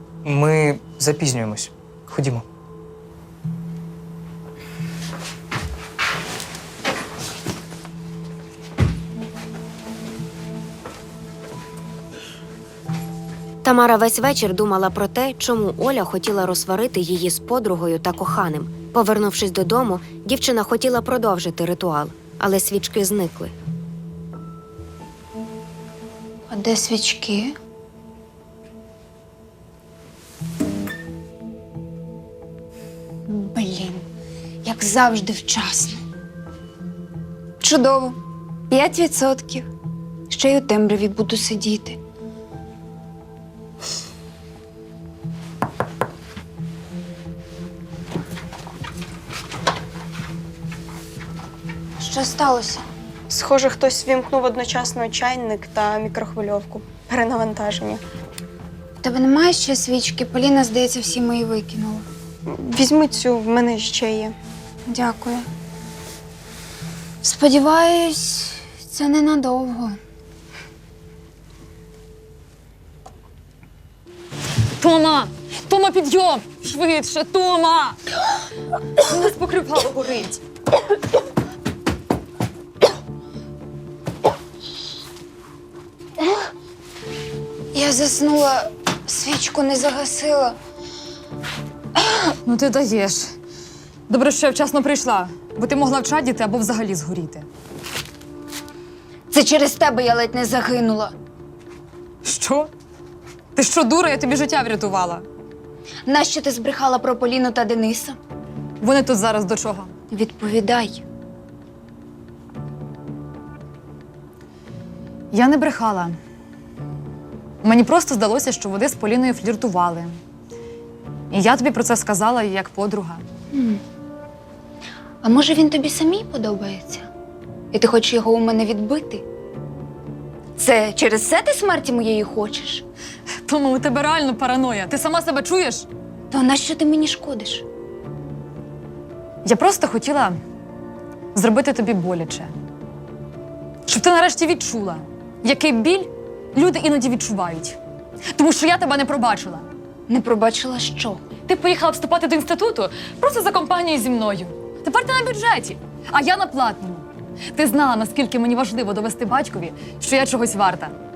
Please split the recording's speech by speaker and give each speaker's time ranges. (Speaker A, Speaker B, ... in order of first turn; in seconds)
Speaker A: 0.2-2.4
Speaker B: 13.6-23.5
Speaker C: 26.5-27.6, 33.3-34.1, 34.6-36.0, 37.6-38.2, 38.7-39.7, 40.3-42.0, 52.0-52.9, 59.0-62.1, 64.9-65.5, 67.2-70.0, 87.7-90.6, 92.0-92.3, 99.3-101.1, 106.1-108.2, 110.1-111.0, 123.5-123.8, 125.2-127.1, 127.7-129.2, 130.6-132.8, 136.3-137.7, 150.1-151.2
Speaker D: 53.3-58.0, 62.5-64.3
Speaker E: 74.8-78.0, 79.0-80.4, 92.5-93.3, 94.1-97.5, 102.2-102.7, 103.5-105.2, 108.8-109.9, 115.3-116.2, 117.6-120.2, 121.3-123.2, 133.5-135.9, 139.4-140.4, 141.3-142.6, 143.9-147.8, 148.3-149.7, 151.5-160.9